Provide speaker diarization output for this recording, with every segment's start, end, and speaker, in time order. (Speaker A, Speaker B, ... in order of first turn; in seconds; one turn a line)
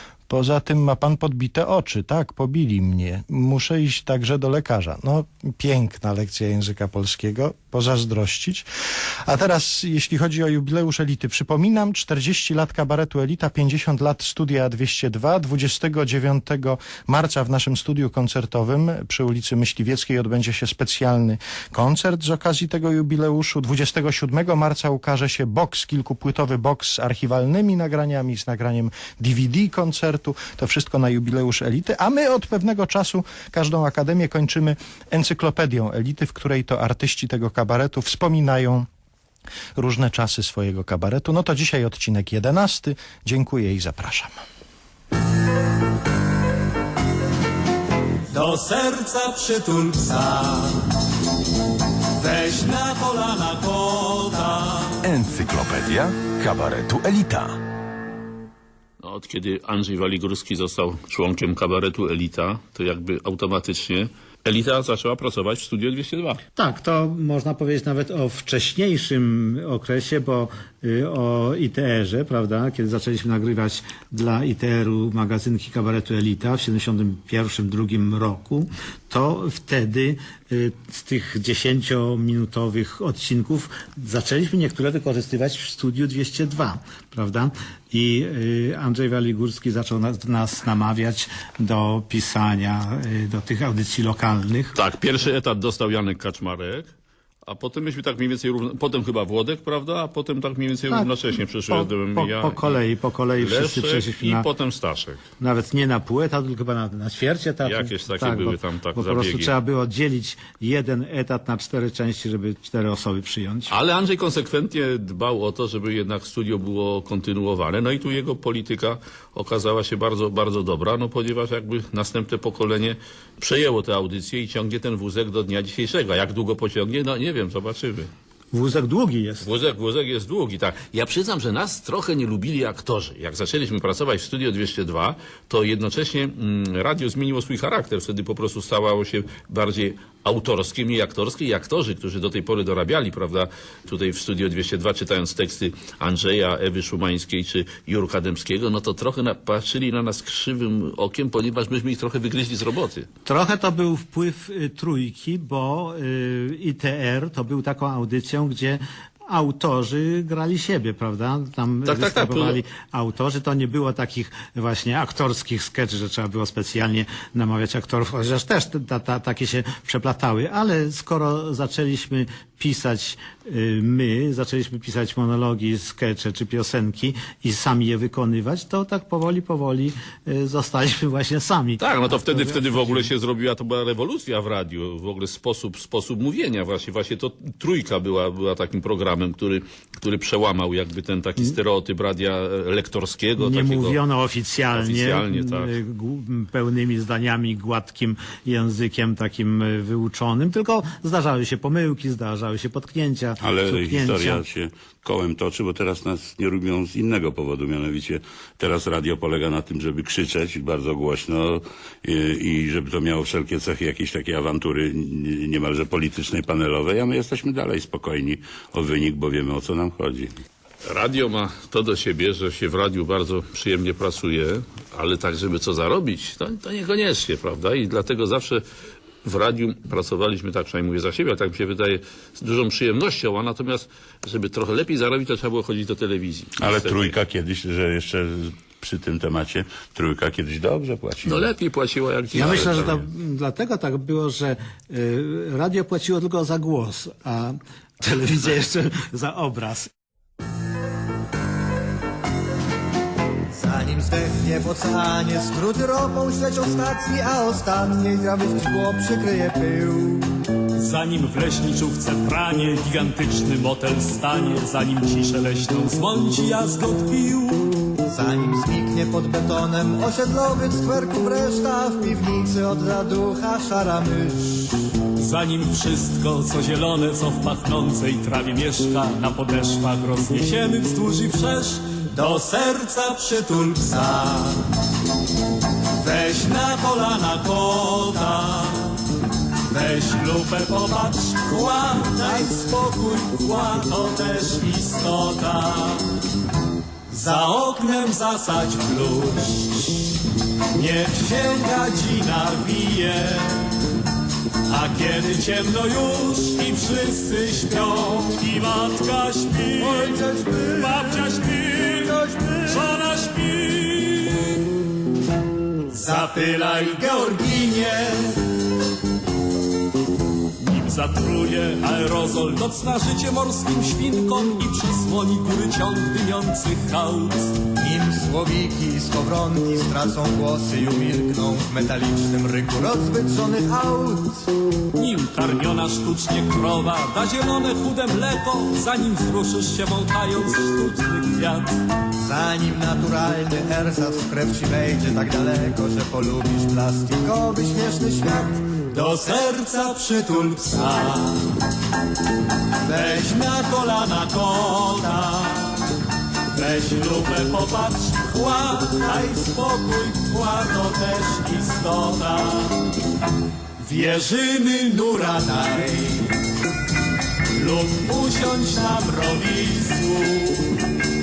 Speaker A: 0.3-8.7
Speaker A: 9.2-38.9
Speaker A: 39.8-44.3
Speaker B: 48.3-50.7
Speaker B: 52.2-55.1
Speaker C: 55.1-57.5
Speaker D: 59.0-66.4
Speaker E: 66.5-94.8
Speaker D: 94.8-96.9
Speaker D: 97.5-102.8
Speaker E: 101.7-104.5
Speaker D: 103.4-105.2
Speaker E: 105.4-113.7
Speaker D: 107.6-109.5
Speaker D: 113.7-128.1
Speaker E: 128.5-129.4
Speaker D: 129.4-153.1
Speaker E: 153.2-183.1
Speaker D: 161.8-162.6
Speaker D: 181.8-194.0
Speaker E: 193.4-204.4
Speaker D: 194.7-195.7
Speaker F: 203.4-220.3
Speaker D: 220.9-228.6
Speaker D: 229.2-237.2
Speaker F: 236.6-241.4
Speaker D: 241.2-243.0
Speaker E: 242.3-249.9
Speaker G: 253.5-260.3
Speaker B: 260.8-267.7
Speaker G: 268.1-274.8
Speaker B: 275.2-284.4
Speaker B: 286.0-289.0
Speaker B: 289.7-296.1
Speaker B: 297.1-300.1
Speaker B: 300.7-303.7
Speaker B: 304.7-312.1
Speaker G: 309.8-311.2
Speaker G: 311.9-312.9
Speaker B: 312.7-314.6
Speaker G: 315.9-318.3
Speaker B: 320.6-327.5
Speaker G: 327.8-334.5
Speaker B: 334.9-341.7
Speaker G: 342.2-351.1
Speaker B: 348.9-351.3
Speaker G: 352.9-354.2
Speaker B: 352.9-355.8
Speaker B: 356.5-362.8
Speaker B: 363.8-365.9
Speaker G: 365.4-366.2
Speaker B: 367.5-370.7